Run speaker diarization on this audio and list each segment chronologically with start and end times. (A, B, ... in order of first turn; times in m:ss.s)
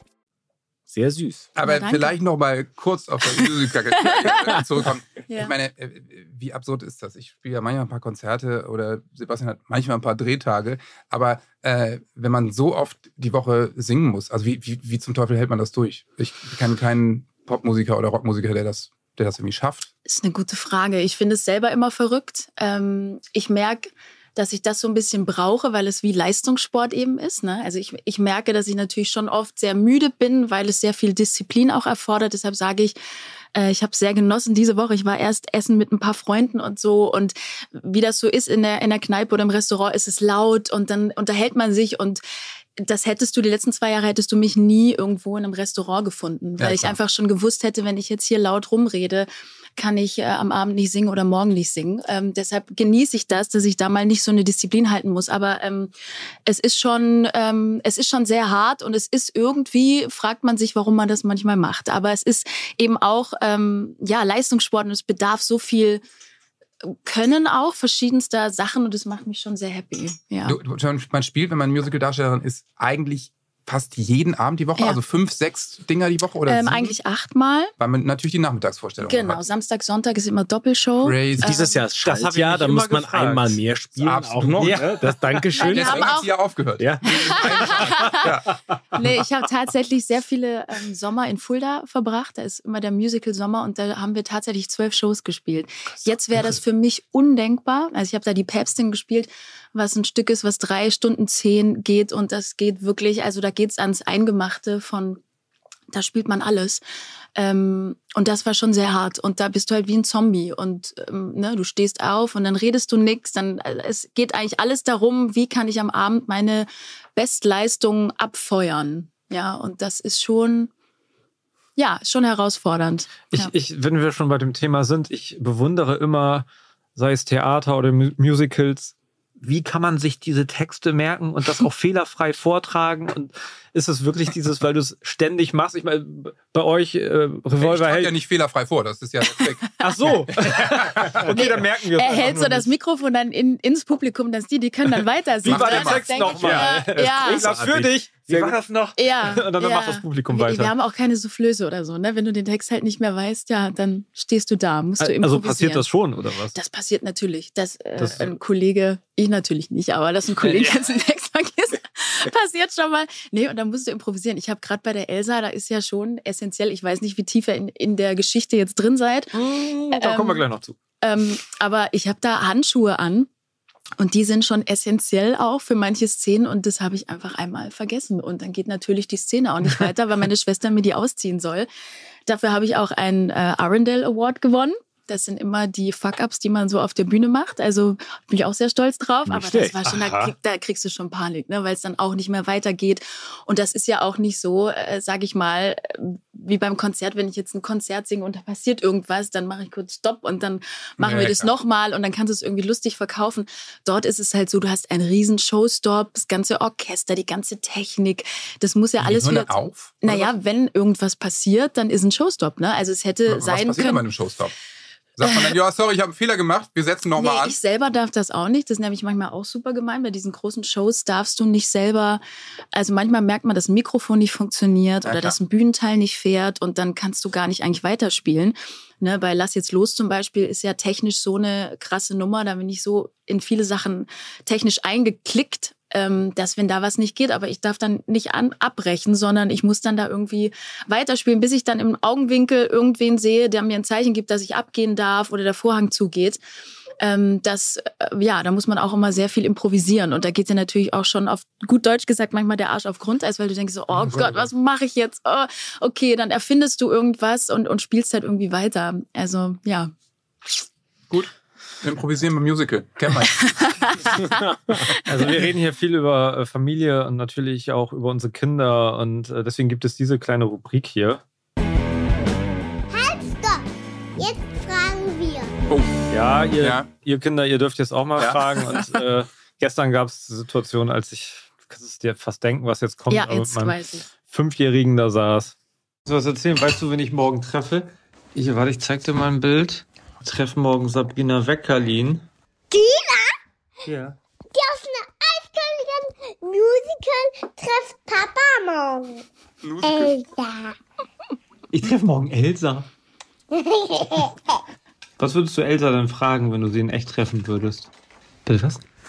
0:00.9-0:01.5 A
0:01.6-0:19.9 B
0:01.6-0:02.1 C
0:03.9-0:04.6 C
0:05.3-0:05.5 C
0:20.1-0:33.0 C
0:33.6-0:42.2 C
0:42.8-0:55.9 C
0:46.6-0:47.0 B
0:56.5-1:06.0 C
1:06.8-1:10.6 C
1:10.5-1:17.0 B
1:16.5-1:17.7 C
1:17.8-1:19.4 B
1:19.0-1:21.8 C
1:21.0-1:21.5 B
1:21.4-1:26.1 A
1:22.0-1:23.6 D
1:24.0-1:24.8 B
1:24.5-1:25.4 D
1:25.5-1:26.3 C
1:25.7-1:28.5 B
1:26.8-1:27.9 A
1:27.0-1:28.4 C
1:28.9-1:45.2 C
1:45.9-1:46.8 C
1:47.4-2:00.7 C
2:01.8-2:03.5 C
2:03.3-2:18.2 D
2:17.6-2:19.7 B
2:19.6-2:20.2 C
2:19.8-2:22.7 D
2:20.2-2:21.3 B
2:21.2-2:27.5 C
2:25.4-2:30.7 D
2:25.5-2:26.7 B
2:27.0-2:28.6 A
2:29.0-2:35.8 C
2:35.0-2:36.6 D
2:36.5-2:49.4 C
2:38.0-2:38.3 D
2:40.4-2:40.7 D
2:49.3-2:50.8 D
2:49.9-2:50.4 C
2:51.0-2:53.3 C
2:54.0-3:01.7 C
3:02.3-3:34.1 C
3:09.3-3:09.8 A
3:09.8-3:10.3 D
3:21.0-3:21.5 B
3:29.0-3:30.3 B
3:33.3-3:34.5 B
3:35.2-3:37.6 B
3:35.2-3:35.6 C
3:37.2-3:42.2 C
3:42.7-4:06.4 C
3:45.0-3:45.4 B
4:07.0-4:19.9 C
4:21.1-4:23.8 B
4:23.3-4:24.3 C
4:24.2-4:24.8 A
4:25.0-4:31.2 D
4:32.9-4:35.5 E
4:35.7-4:36.0 B
4:36.1-4:45.6 D
4:36.6-4:36.9 B
4:38.2-4:38.8 B
4:43.1-4:44.1 C
4:46.1-4:52.3 D
4:52.7-4:53.4 E
4:53.8-4:54.2 D
4:54.5-4:59.2 E
4:59.6-5:00.2 B
4:59.8-5:00.7 E
5:01.7-5:02.9 D
5:03.5-5:04.6 E
5:05.2-5:07.9 D
5:08.5-5:08.8 D